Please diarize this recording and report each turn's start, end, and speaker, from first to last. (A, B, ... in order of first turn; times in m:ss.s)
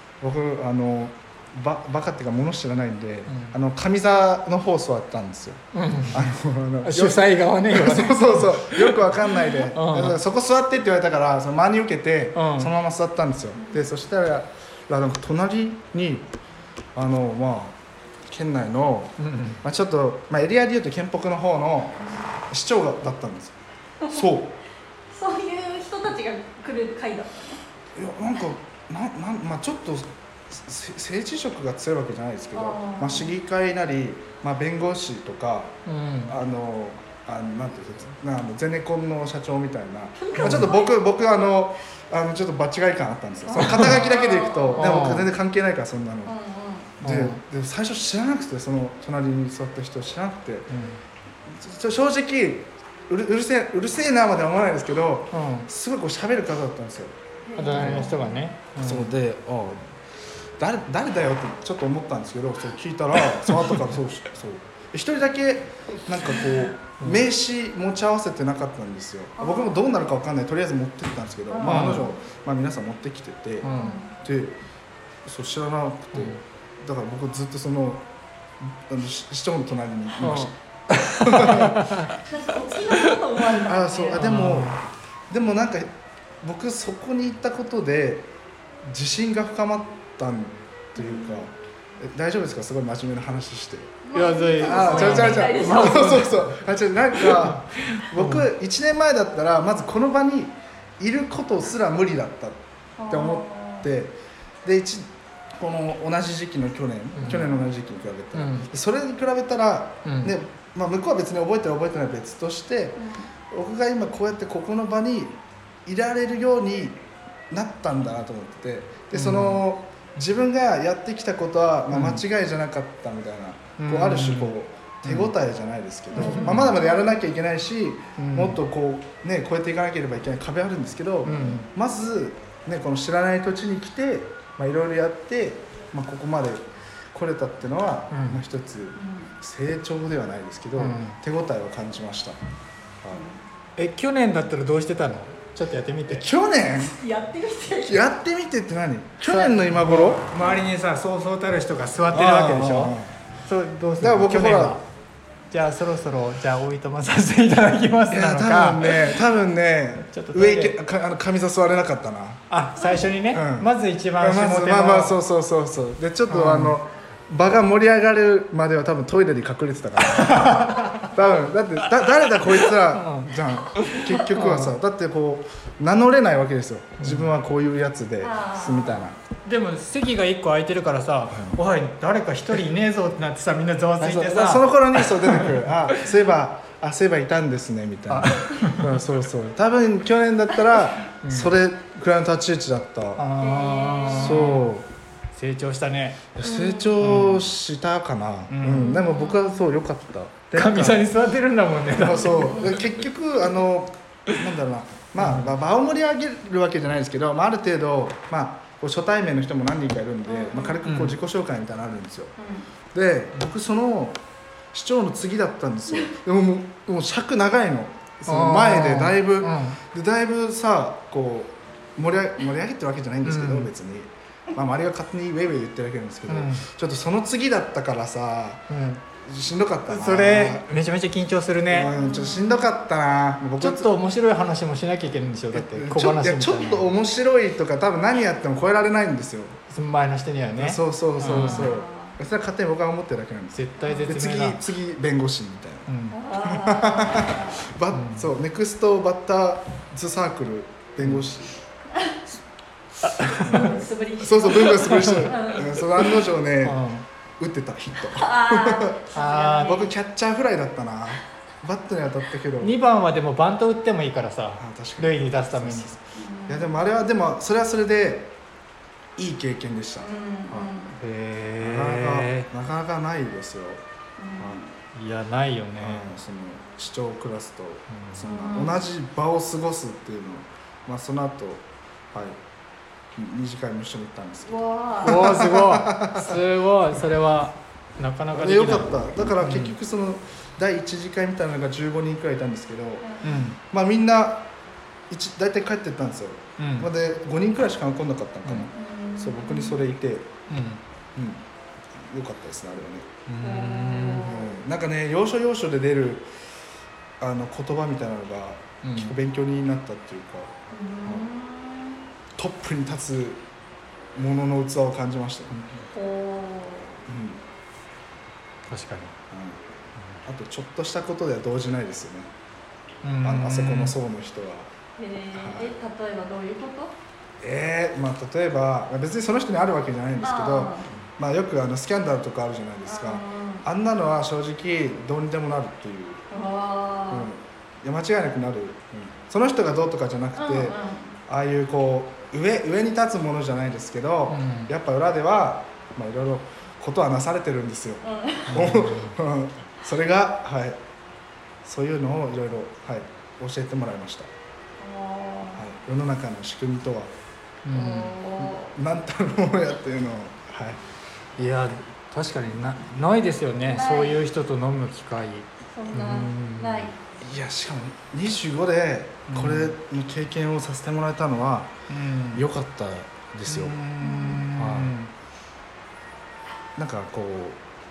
0:00.2-0:16.3 A
0:03.3-0:03.6 B
0:05.7-0:10.2 B
0:12.4-0:12.7 B
0:13.5-0:13.8 C
0:16.9-0:17.8 A
0:18.3-0:24.6 A
0:19.2-0:19.6 B
0:25.1-0:27.6 C
0:28.0-0:35.7 A
0:32.5-0:33.3 C
0:35.8-0:36.3 B
0:36.3-0:46.3 A
0:40.2-0:41.0 C
0:40.4-0:40.7 B
0:43.5-0:44.9 C
0:43.6-0:44.0 B
0:44.8-0:45.3 B
0:46.2-0:46.9 C
0:47.0-0:50.7 A
0:47.0-0:47.4 B
0:50.7-0:51.0 B
0:51.5-0:57.1 A
0:55.3-0:55.7 B
0:57.4-0:58.5 C
0:57.6-0:59.1 B
0:57.7-0:58.0 A
0:58.8-0:59.8 A
1:00.6-1:14.6 A
1:03.5-1:03.8 B
1:07.0-1:07.2 B
1:09.4-1:09.8 C
1:11.5-1:12.1 C
1:11.6-1:12.1 B
1:13.6-1:14.1 C
1:13.6-1:14.0 B
1:15.2-1:18.0 A
1:16.1-1:16.4 B
1:18.6-1:21.9 A
1:20.2-1:22.2 B
1:22.3-1:24.2 C
1:23.6-1:28.3 A
1:24.1-1:24.8 B
1:28.8-1:34.0 A
1:31.0-1:31.4 C
1:34.0-1:36.3 C
1:34.1-1:36.4 B
1:34.6-1:57.0 A
1:37.1-1:38.5 B
1:43.0-1:43.9 C
1:47.1-1:47.5 B
1:48.3-1:48.7 B
1:50.0-1:50.3 B
1:53.0-1:53.3 C
1:57.5-2:16.6 A
1:59.1-1:59.6 B
2:01.9-2:02.2 B
2:03.8-2:05.3 B
2:06.1-2:06.8 C
2:06.2-2:06.7 B
2:08.2-2:08.6 B
2:11.2-2:11.7 B
2:11.3-2:11.6 C
2:17.1-2:22.4 A
2:18.1-2:18.4 B
2:19.0-2:19.3 C
2:20.8-2:21.2 B
2:23.1-2:23.4 C
2:23.8-2:26.3 B
2:26.1-2:27.0 A
2:26.7-2:28.0 C
2:27.8-2:30.2 A
2:29.2-2:34.8 B
2:32.1-2:33.1 A
2:34.0-2:34.8 A
2:35.5-2:39.2 B
2:38.1-2:42.4 A
2:40.0-2:40.8 B
2:42.5-2:45.2 B
2:43.3-2:59.2 A
2:46.3-2:46.8 B
2:50.1-2:51.2 B
2:52.0-2:54.8 B
2:57.0-2:57.3 B
2:58.2-2:59.1 C
2:59.4-3:05.7 B
3:01.3-3:01.6 A
3:04.0-3:13.2 A
3:08.1-3:09.0 B
3:11.2-3:11.5 B
3:13.2-3:14.7 B
3:13.4-3:14.6 C
3:14.1-3:14.9 A
3:15.3-3:16.3 B
3:16.4-3:21.1 A
3:16.4-3:17.0 C
3:17.0-3:17.5 B
3:18.5-3:19.0 B
3:18.7-3:19.6 C
3:20.5-3:22.8 B
3:21.9-3:32.3 A
3:22.3-3:22.8 C
3:25.2-3:25.5 B
3:30.2-3:30.8 C
3:30.8-3:31.2 B
3:32.4-3:32.7 C
3:32.9-3:34.2 A
3:34.7-3:48.6 A
3:38.3-3:39.8 B
3:43.2-3:43.7 B
3:46.3-3:46.6 B
3:48.7-3:49.0 B
3:49.2-3:50.6 A
3:49.9-3:51.9 B
3:51.7-3:53.9 A
3:51.8-3:52.8 C
3:53.6-3:56.9 B
3:55.5-3:59.6 A
3:59.7-4:01.8 B
4:00.6-4:11.6 A
4:01.2-4:02.2 C
4:03.5-4:04.6 B
4:03.8-4:04.1 C
4:05.9-4:06.2 B
4:06.1-4:07.6 C
4:07.9-4:08.3 B
4:11.0-4:11.3 B
4:13.0-4:13.8 B
4:13.3-4:16.8 A
4:13.4-4:15.8 C
4:14.7-4:15.4 B
4:16.6-4:17.0 B
4:17.4-4:19.0 A
4:18.1-4:19.9 C
4:19.1-4:19.8 B
4:19.6-4:22.8 A
4:22.6-4:25.9 B
4:24.6-4:28.3 A
4:26.2-4:26.7 C
4:29.2-4:30.7 A
4:30.0-4:31.0 C
4:31.0-4:32.5 B
4:31.6-4:33.8 A
4:34.2-4:34.7 C
4:34.9-4:36.1 B
4:35.8-4:42.4 A
4:37.9-4:38.2 B
4:38.2-4:38.8 C
4:43.2-4:46.4 A
4:44.5-4:45.2 C
4:45.0-4:49.8 B
4:48.3-4:53.1 A
4:53.0-4:53.3 C
4:53.2-4:53.6 B
4:53.7-4:54.5 A
4:55.1-5:00.3 A
4:56.6-4:56.9 B
4:58.7-4:59.8 C
5:00.5-5:00.8 B
5:01.2-5:01.4 A
5:02.0-5:03.1 A
5:03.3-5:04.4 B
5:03.4-5:04.5 C
5:04.2-5:06.3 A
5:07.2-5:11.2 A
5:08.8-5:09.1 B
5:10.7-5:12.0 C
5:12.4-5:13.4 A
5:14.2-5:15.8 A
5:15.9-5:17.0 C
5:17.1-5:17.4 A
5:18.7-5:19.2 B
5:19.3-5:19.6 A
5:20.2-5:22.3 A
5:23.0-5:24.0 B
5:23.2-5:24.7 A
5:25.0-5:26.9 C
5:25.3-5:25.7 A
5:27.4-5:36.2 A
5:30.2-5:30.9 C
5:32.9-5:33.6 C
5:36.3-5:37.3 C
5:37.1-5:50.8 A
5:40.4-5:41.2 C
5:44.3-5:44.7 B
5:48.0-5:48.6 C
5:48.5-5:49.1 B
5:51.6-5:54.3 A
5:54.8-5:55.6 C
5:55.6-5:57.1 A
5:57.6-5:58.2 B
5:57.7-5:58.7 C
5:58.4-6:00.8 A
6:01.4-6:06.9 B
6:03.7-6:04.2 C
6:05.7-6:06.9 C
6:07.2-6:11.7 A
6:09.3-6:09.7 B
6:11.9-6:12.4 B
6:12.3-6:13.8 A
6:13.5-6:15.1 B
6:14.0-6:14.5 C
6:14.5-6:14.9 A
6:16.8-6:17.6 A